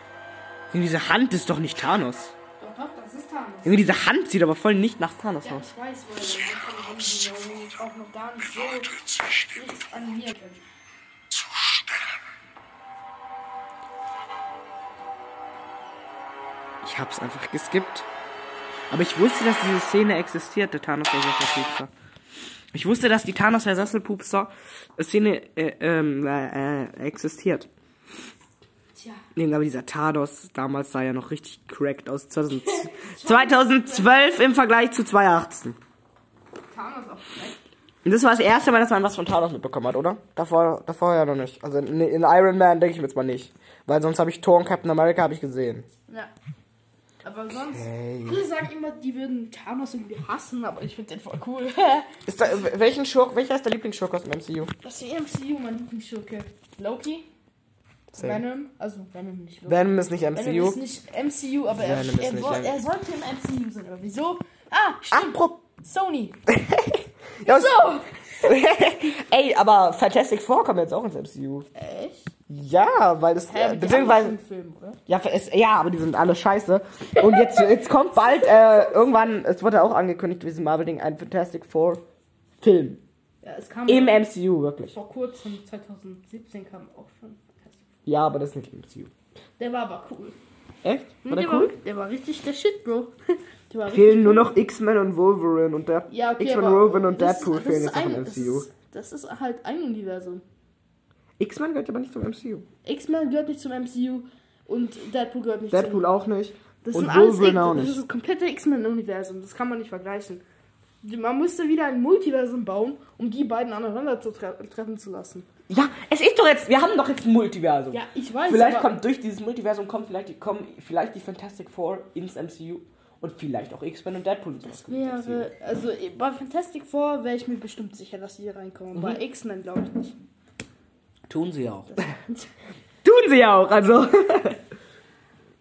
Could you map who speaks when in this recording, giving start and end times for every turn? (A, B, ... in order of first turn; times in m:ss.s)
0:00.7-0:02.3 A
0:02.6-0:03.8 B
0:03.6-0:05.7 A
0:05.4-0:08.9 B
0:06.4-0:07.6 C
0:08.6-0:09.7 C
0:09.5-0:10.6 B
0:11.3-0:12.2 C
0:16.8-0:18.1 A
0:18.9-0:21.9 A
0:22.7-0:27.7 A
0:29.0-0:29.2 B
0:29.4-0:35.8 A
0:32.5-0:34.2 B
0:36.7-0:37.6 B
0:38.0-0:45.9 A
0:47.2-0:52.7 B
0:47.5-0:48.4 A
0:52.3-0:54.7 A
0:54.8-0:57.3 B
0:58.1-0:58.4 A
0:58.2-1:06.4 B
0:59.7-1:00.8 A
1:01.8-1:02.8 A
1:05.1-1:05.6 A
1:06.5-1:11.7 A
1:07.4-1:08.6 B
1:11.8-1:12.3 B
1:12.5-1:14.4 A
1:13.5-1:15.0 B
1:15.1-1:22.0 A
1:17.2-1:17.7 B
1:22.6-1:23.0 A
1:23.4-1:24.2 B
1:23.9-1:25.0 A
1:24.9-1:27.8 B
1:28.1-1:29.1 A
1:29.6-1:30.4 B
1:30.8-1:31.7 A
1:31.2-1:33.1 B
1:33.7-1:34.5 B
1:33.9-1:38.7 A
1:36.1-1:40.4 B
1:41.4-1:42.7 A
1:42.8-1:46.1 B
1:45.7-1:48.0 A
1:46.8-1:50.4 B
1:51.0-1:55.5 B
1:55.7-2:05.5 A
1:57.9-1:59.0 B
2:04.6-2:10.2 B
2:09.0-2:09.2 A
2:11.3-2:12.1 A
2:11.9-2:12.5 B
2:13.0-2:14.6 A